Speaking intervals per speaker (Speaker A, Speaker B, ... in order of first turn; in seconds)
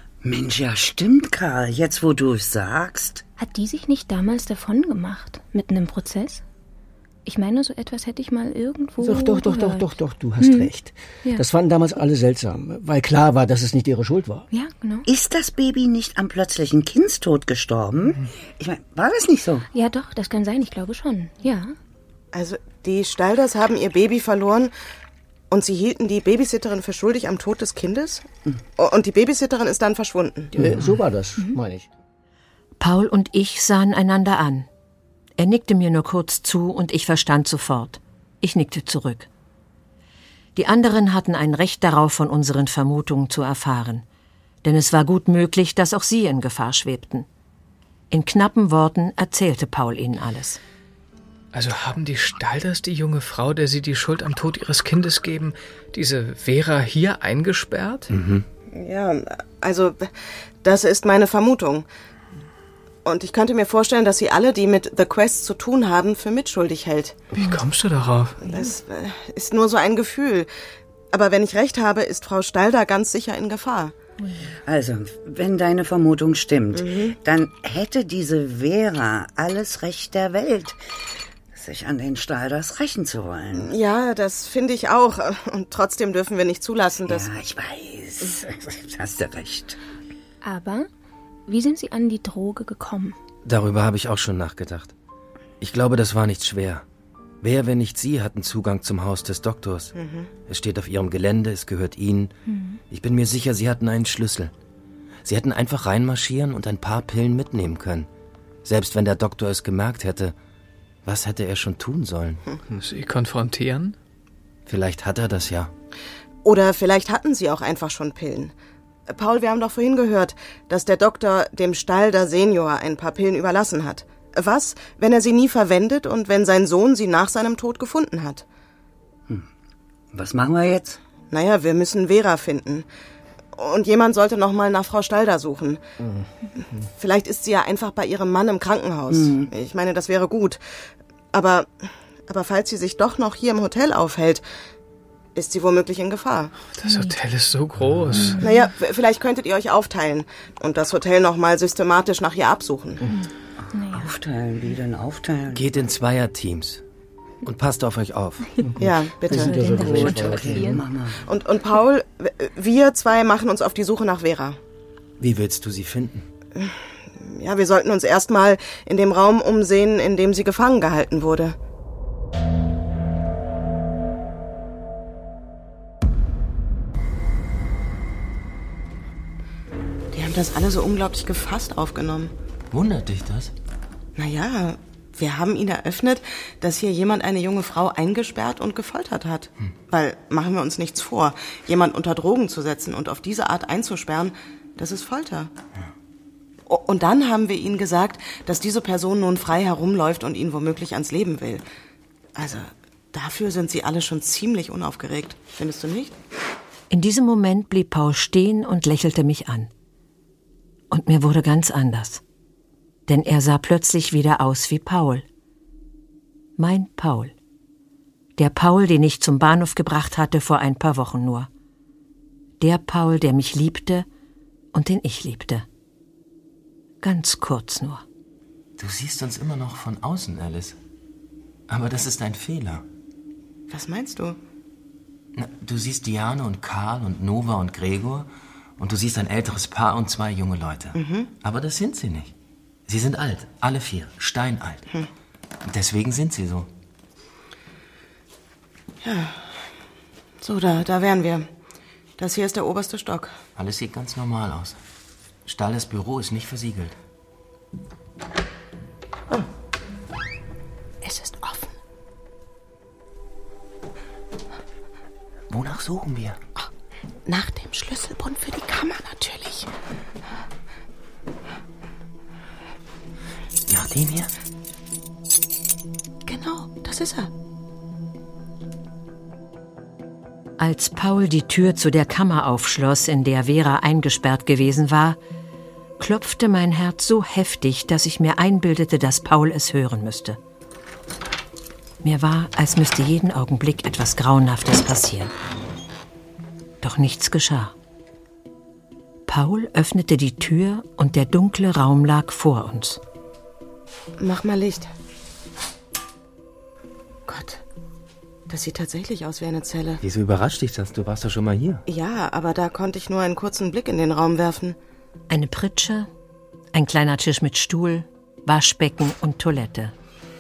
Speaker A: 0.2-3.2, 15.1-19.7, 74.7-80.8, 81.5-83.7, 87.1-89.8, 130.1-131.0, 139.1-139.5, 153.6-155.6, 159.8-161.2
Speaker B: 3.4-6.4, 7.2-9.9, 10.4-10.7, 14.5-15.1, 19.7-21.7, 90.4-90.9, 91.5-93.2, 102.5-102.8, 146.8-147.2, 148.3-148.6, 153.1-154.1, 159.3-160.8
Speaker C: 9.0-14.4, 30.5-31.9, 158.6-160.8
Speaker D: 22.3-24.7, 25.5-28.2, 28.8-30.5, 58.7-60.1, 60.6-61.9, 63.0-67.2, 68.5-70.5, 71.1-73.9, 76.7-77.2, 83.5-87.3, 100.0-100.3, 116.4-118.5, 119.1-128.4, 131.3-132.8, 133.6-135.8, 137.0-140.6, 141.3-141.7, 142.3-144.4, 145.3-146.5, 148.4-153.0, 158.8-159.6, 161.3-164.6, 166.6-171.6, 180.1-182.3, 184.2-195.5, 196.7-201.6, 202.3-206.1, 233.7-234.4, 240.9-241.3, 249.0-249.4, 250.4-251.5, 252.2-253.4, 261.0-261.7, 267.2-269.7, 276.3-277.3, 304.2-304.9, 307.3-307.6, 308.5-310.0, 311.9-314.8
Speaker E: 32.8-34.7, 35.4-39.3, 40.5-44.0, 44.6-47.3, 48.1-50.6, 206.9-209.7, 210.9-212.2, 213.1-215.2, 216.6-217.3, 218.4-221.5, 222.6-224.1, 224.7-225.7, 227.0-228.0, 280.6-285.2, 286.0-290.4, 292.0-295.3, 296.8-297.7, 299.3-303.0, 315.3-316.1, 316.7-319.9
Speaker F: 51.5-58.1, 67.3-68.5, 112.7-114.0, 146.8-148.4
Speaker G: 58.1-58.5, 93.4-94.9, 95.6-96.8, 97.4-99.9, 100.5-102.3, 102.9-104.5, 105.2-108.1, 108.6-110.3, 111.0-112.4, 114.7-115.7, 155.5-156.8, 157.4-158.5, 165.2-166.3, 182.7-183.5, 228.8-230.8, 231.7-232.8, 235.3-242.3, 242.9-244.8, 245.6-246.7, 253.6-254.8, 255.4-256.9, 265.5-266.4, 273.7-274.3, 310.0-311.8